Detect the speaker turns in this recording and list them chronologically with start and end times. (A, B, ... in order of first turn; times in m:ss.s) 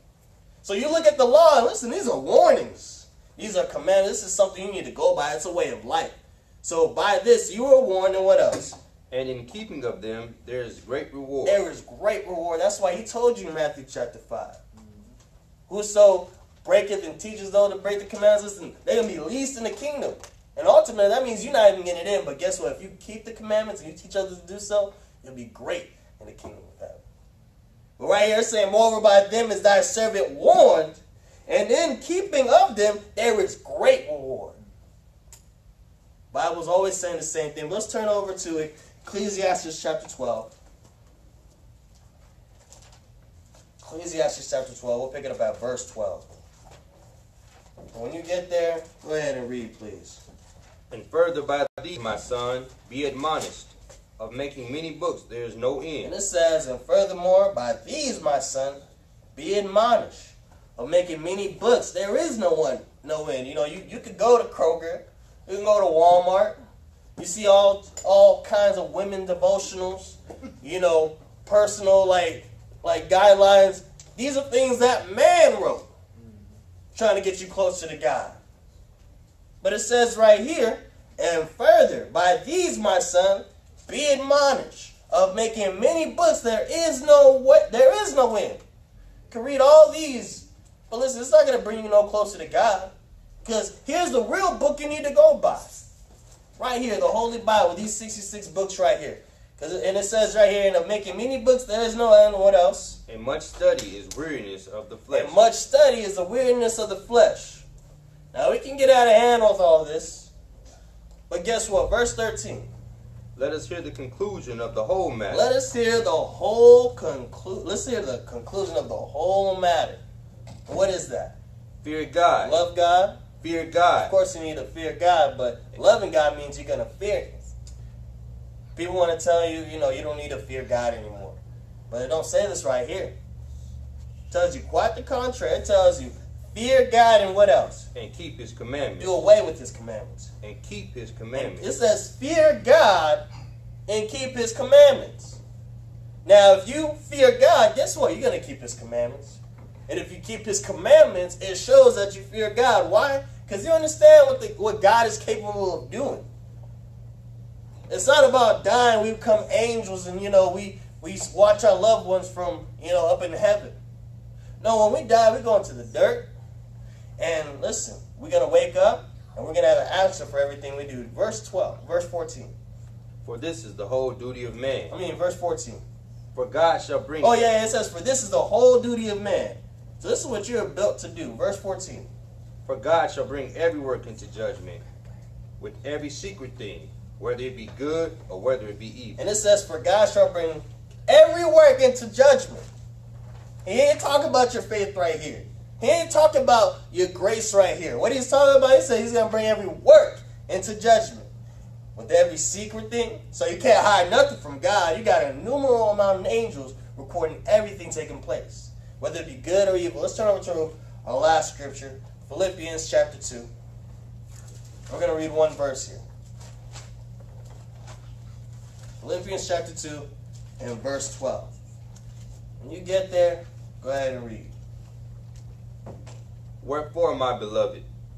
0:00.6-0:08.8 A
0:09.1-0:11.6 B
0:11.4-0:14.6 A
0:15.7-0:27.0 A
0:28.0-0:34.6 A
0:36.3-0:40.5 A
0:43.8-0:46.3 A
0:47.9-0:50.2 A
0:50.9-0:56.1 B
0:56.0-0:58.8 A
0:59.4-1:06.6 A
1:07.2-1:15.9 A
1:16.9-1:18.4 A
1:19.6-1:28.6 A
1:29.3-1:32.9 A
1:33.4-1:35.8 A
1:36.6-1:43.0 A
1:43.1-1:45.4 B
1:45.1-1:47.6 A
1:48.3-1:50.3 A
1:51.3-1:52.7 A
1:53.4-1:55.4 B
1:55.3-2:00.0 A
2:00.7-2:01.4 A
2:01.8-2:02.6 B
2:02.4-2:03.4 A
2:03.4-2:04.1 B
2:04.0-2:07.4 A
2:08.8-2:11.4 A
2:11.9-2:13.1 A
2:14.3-2:17.9 A
2:17.9-2:19.2 B
2:19.0-2:20.3 A
2:20.4-2:21.6 B
2:21.3-2:23.2 A
2:23.9-2:25.4 A
2:26.2-2:36.2 A
2:37.9-2:43.8 A
2:44.6-2:46.3 A
2:47.2-2:52.5 A
2:53.2-2:54.9 B
2:54.9-2:55.8 A
2:56.3-2:57.4 B
2:57.2-3:02.1 A
3:02.6-3:04.8 B
3:05.6-3:09.2 B
3:09.2-3:12.6 A
3:13.6-3:21.3 A
3:22.0-3:33.5 A
3:34.9-3:36.0 A
3:39.0-3:41.5 A
3:42.6-3:44.5 A
3:46.6-3:47.8 B